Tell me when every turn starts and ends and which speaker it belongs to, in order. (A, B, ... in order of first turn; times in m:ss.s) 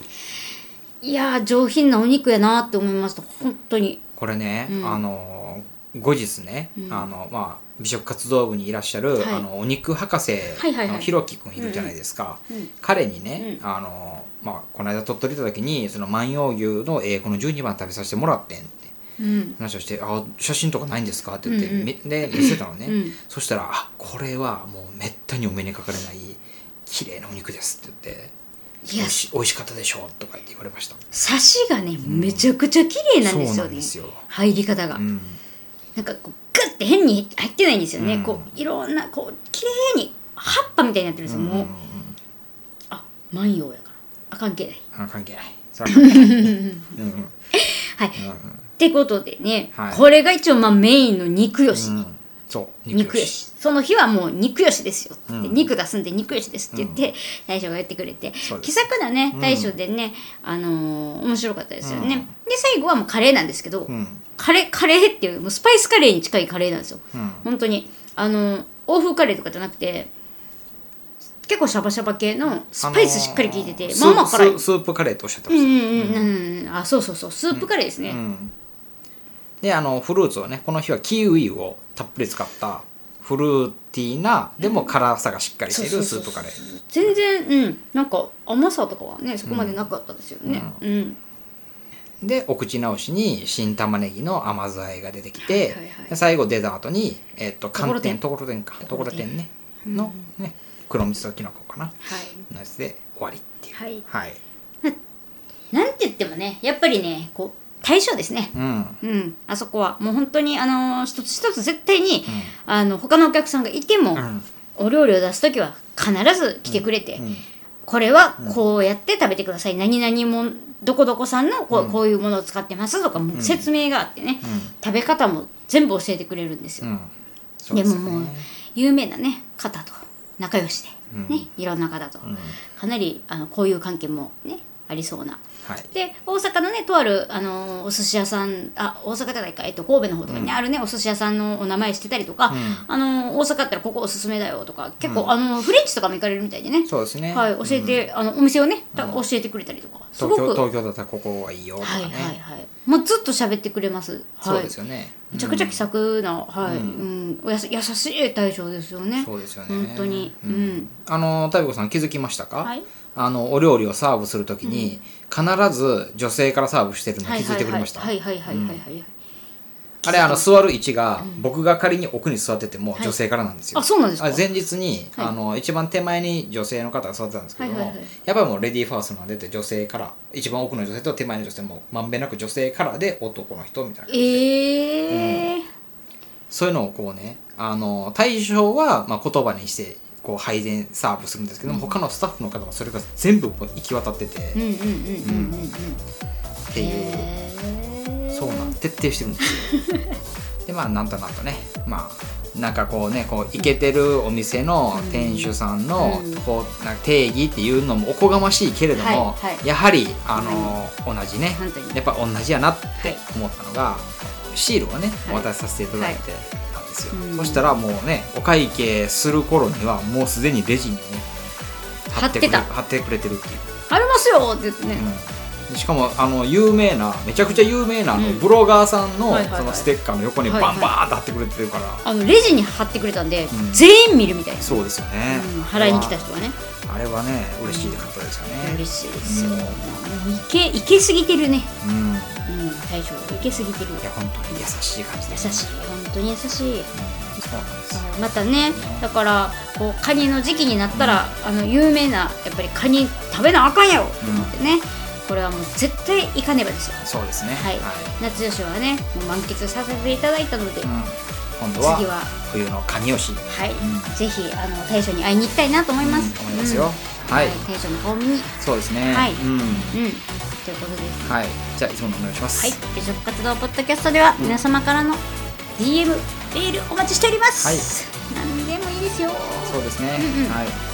0:01.0-0:04.0 A
0:04.2-0:18.9 B
0:04.7-0:05.0 A
0:06.8-0:07.1 A
0:09.2-0:09.4 A
0:10.6-0:11.9 A
0:19.2-0:19.6 A
0:19.6-0:28.3 B
0:21.4-0:23.2 A
0:28.8-0:29.2 A
0:29.0-0:31.0 B
0:31.1-0:35.0 A
0:32.0-0:32.5 B
0:33.2-0:34.2 B
0:34.9-0:35.4 B
0:36.0-0:41.7 A
0:38.0-0:38.5 B
0:41.2-0:42.2 B
0:42.9-0:44.8 A
0:44.9-0:47.3 B
0:45.8-0:46.9 A
0:47.5-0:48.2 A
0:48.2-0:48.6 B
0:48.8-0:52.0 A
0:49.7-0:50.0 B
0:51.7-0:53.4 B
0:52.9-1:10.1 A
0:55.3-0:55.7 B
0:56.7-0:57.0 B
0:58.4-0:58.7 B
0:59.3-0:59.7 B
1:01.8-1:02.3 B
1:03.9-1:04.2 B
1:07.1-1:07.4 B
1:11.5-1:14.6 A
1:12.8-1:16.3 B
1:15.5-1:18.2 A
1:17.5-1:18.5 B
1:19.6-1:26.6 B
1:24.6-1:24.9 A
1:25.7-1:31.2 A
1:29.4-1:29.8 B
1:30.4-1:30.8 B
1:32.2-1:44.4 B
1:35.4-1:36.1 A
1:37.8-1:38.2 A
1:38.8-1:39.3 A
1:39.8-1:40.3 A
1:42.0-1:42.4 A
1:43.7-1:44.0 A
1:45.7-1:54.2 A
1:48.5-1:49.0 B
1:54.2-1:54.4 B
1:54.8-1:57.2 A
1:56.7-1:57.4 B
1:57.8-2:06.9 A
2:01.7-2:02.0 B
2:03.3-2:03.6 B
2:04.4-2:04.7 B
2:06.8-2:08.4 B
2:07.7-2:30.6 A
2:11.1-2:11.4 B
2:12.2-2:12.6 B
2:15.6-2:15.9 B
2:20.3-2:20.6 B
2:22.5-2:22.8 B
2:25.0-2:25.3 B
2:26.8-2:28.0 B
2:28.9-2:29.2 B
2:30.2-2:32.4 B
2:31.8-2:34.7 A
2:34.4-2:35.8 B
2:35.3-2:40.9 A
2:36.6-2:37.0 B
2:39.2-2:48.8 B
2:44.6-2:45.0 A
2:47.2-2:49.1 A
2:50.0-2:50.5 A
2:50.0-3:04.4 B
2:53.7-2:54.4 A
2:57.6-2:58.1 A
3:04.1-3:05.6 A
3:05.1-3:05.5 B
3:06.5-3:14.6 B
3:11.7-3:12.0 A
3:14.5-3:16.0 A
3:15.2-3:15.7 B
3:16.7-3:17.3 B
3:16.7-3:18.8 A
3:18.3-3:19.7 B
3:19.7-3:20.1 A
3:20.6-3:41.3 B
3:24.9-3:26.4 A
3:28.9-3:29.6 A
3:30.3-3:30.8 A
3:31.6-3:32.0 A
3:37.1-3:37.7 A
3:42.1-3:43.7 B
3:42.1-3:42.7 A
3:43.9-3:45.1 A
3:44.9-3:52.0 B
3:48.1-3:48.4 A
3:49.3-3:49.9 A
3:50.4-3:50.9 A
3:52.0-3:56.6 A
3:53.5-3:53.8 B
3:54.6-3:56.2 B
3:56.8-3:59.8 B
3:57.6-3:58.1 A
3:58.6-4:01.7 A
4:01.8-4:02.5 B
4:02.5-4:04.6 A
4:04.0-4:05.6 B
4:05.3-4:06.9 A
4:06.9-4:08.0 B
4:07.9-4:17.0 A
4:08.7-4:09.0 B
4:10.9-4:11.2 B
4:14.2-4:14.5 B
4:17.0-4:18.2 B
4:17.5-4:20.9 A
4:20.8-4:24.1 B
4:21.8-4:22.3 A
4:23.5-4:28.5 A
4:26.0-4:27.6 B
4:28.6-4:30.0 B
4:29.0-4:31.4 A
4:31.2-4:32.7 B
4:32.6-4:35.2 A
4:35.8-4:40.6 A
4:37.6-4:37.9 B
4:39.6-4:40.8 B